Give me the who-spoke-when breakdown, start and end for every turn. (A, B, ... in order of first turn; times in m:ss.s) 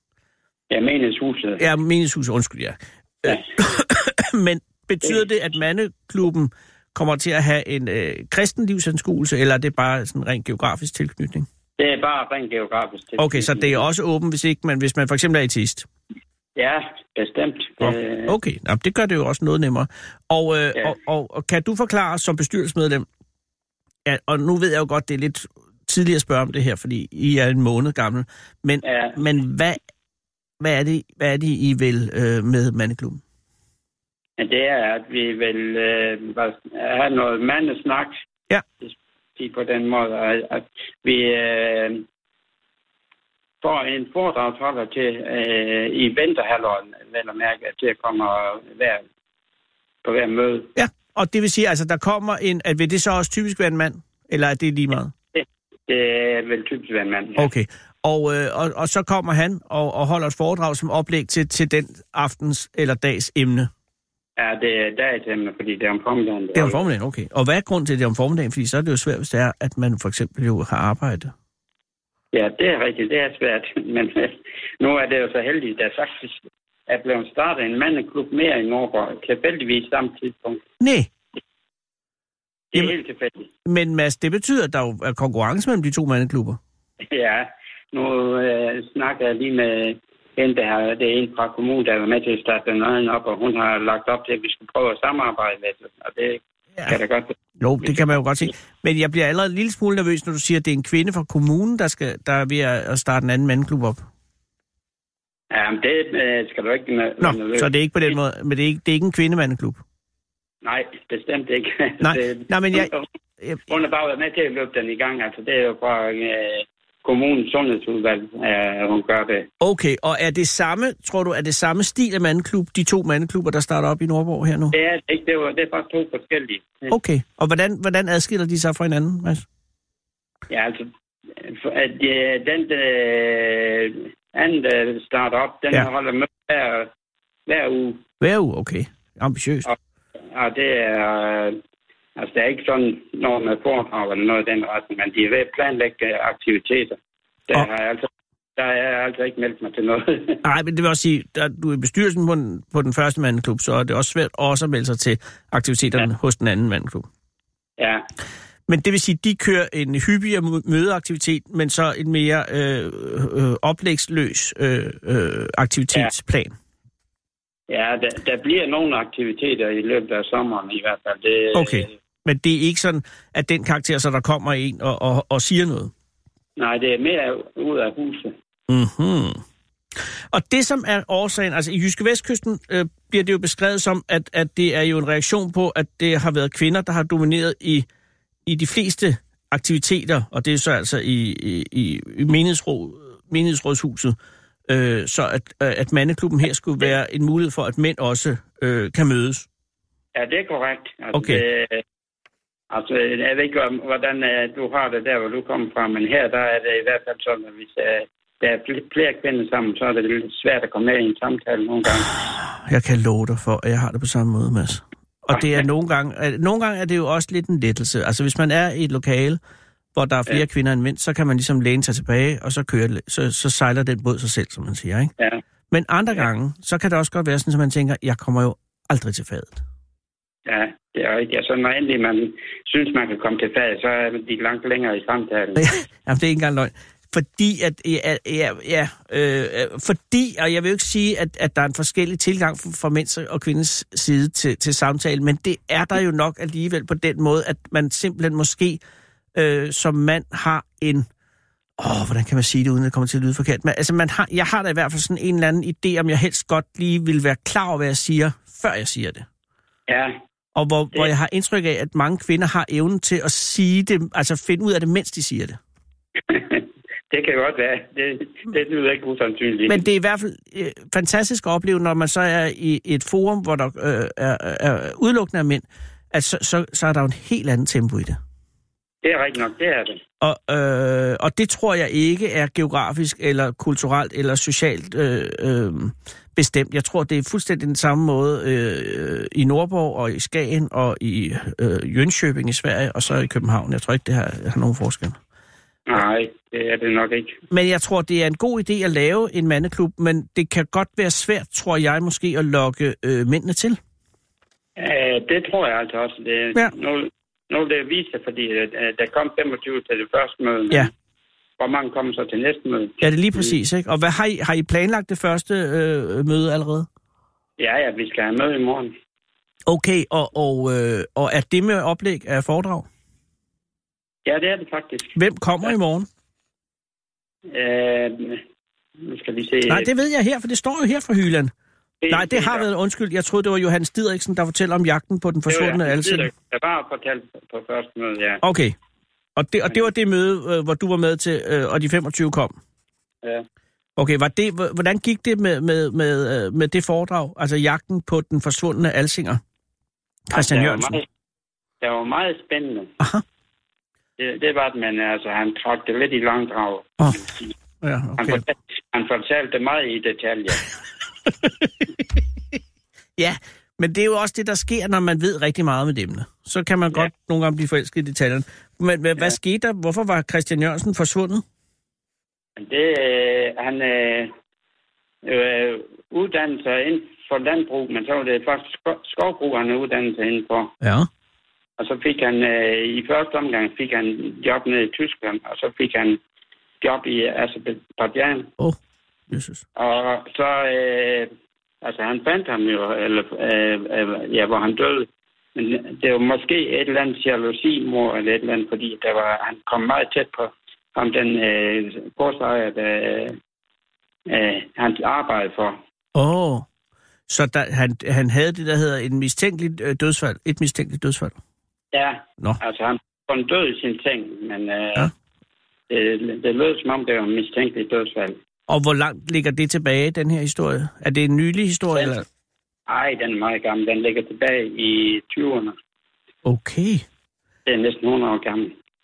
0:00.7-0:01.6 A
0:01.6-0:11.4 B
0:11.8-0:13.8 A
0:13.2-0:15.8 B
0:16.6-0:18.3 A
0:17.8-0:23.0 B
0:24.0-0:29.8 B
0:28.8-0:29.2 A
0:30.6-0:33.2 B
0:34.4-0:38.2 A
0:38.8-0:42.0 A
0:43.6-0:49.0 A
0:50.0-0:50.7 A
0:50.8-0:55.1 B
0:55.3-0:57.5 A
0:57.4-1:03.7 B
1:04.4-1:06.8 A
1:06.5-1:11.3 B
1:12.3-1:20.6 A
1:20.8-1:21.1 B
1:22.7-1:23.5 A
1:23.6-1:26.6 B
1:27.1-1:37.3 A
1:37.6-1:44.0 B
1:45.5-1:47.7 A
1:47.2-1:49.8 B
1:50.6-1:53.0 A
1:52.0-1:53.6 B
1:53.7-1:59.5 A
1:59.6-2:04.7 B
2:04.7-2:06.9 A
2:06.9-2:09.4 B
2:10.5-2:16.9 A
2:17.5-2:18.0 A
2:18.2-2:19.7 B
2:20.3-2:21.6 A
2:22.2-2:27.0 A
2:27.5-2:30.4 A
2:30.4-2:37.1 B
2:37.8-2:38.0 A
2:38.7-2:46.5 B
2:47.7-2:51.9 A
2:51.5-2:55.9 B
2:56.6-2:58.3 A
2:58.7-2:59.4 B
3:00.3-3:07.8 B
3:08.4-3:14.2 B
3:14.7-3:19.4 B
3:20.1-3:21.8 A
3:21.1-3:21.4 B
3:22.7-3:32.1 A
3:32.4-3:39.4 B
3:35.3-3:35.6 A
3:39.9-3:45.1 B
3:45.7-3:49.6 B
3:50.4-3:55.6 A
3:55.6-4:08.8 B
4:09.3-4:11.1 B
4:11.8-4:19.2 B
4:19.9-4:20.1 A
4:20.6-4:25.6 B
4:26.3-4:29.8 A
4:29.7-4:38.2 B
4:39.0-4:40.0 A
4:40.2-4:55.2 B
4:55.9-4:57.4 A
4:57.5-5:03.8 B
5:04.8-5:10.9 A
5:11.6-5:13.5 A
5:13.0-5:16.9 B
5:17.6-5:18.9 A
5:19.6-5:22.9 B
5:24.2-5:25.7 A
5:25.2-5:26.1 B
5:27.5-5:28.4 A
5:29.0-5:29.9 A
5:29.7-5:31.5 B
5:32.0-5:32.7 A
5:32.1-5:36.3 B
5:35.5-5:38.4 A
5:38.4-5:38.7 B
5:39.4-5:42.6 B
5:44.0-5:49.4 B
5:50.3-5:51.0 B
5:50.3-5:51.0 A
5:51.8-5:52.9 A
5:54.2-5:57.5 A
5:57.8-5:58.4 B
5:58.2-6:00.6 A
6:01.4-6:02.0 B
6:03.2-6:11.4 B
6:12.6-6:14.3 A
6:15.2-6:20.7 A
6:20.8-6:21.1 B
6:21.8-6:26.2 A
6:26.8-6:28.5 A
6:29.3-6:29.6 B
6:29.8-6:43.4 A
6:44.3-6:45.8 A
6:46.1-6:46.6 B
6:47.3-6:51.4 B
6:51.9-6:55.1 A
6:55.9-6:58.4 A
6:58.7-7:02.2 B
7:02.9-7:05.7 A
7:06.4-7:07.0 B
7:07.7-7:08.7 A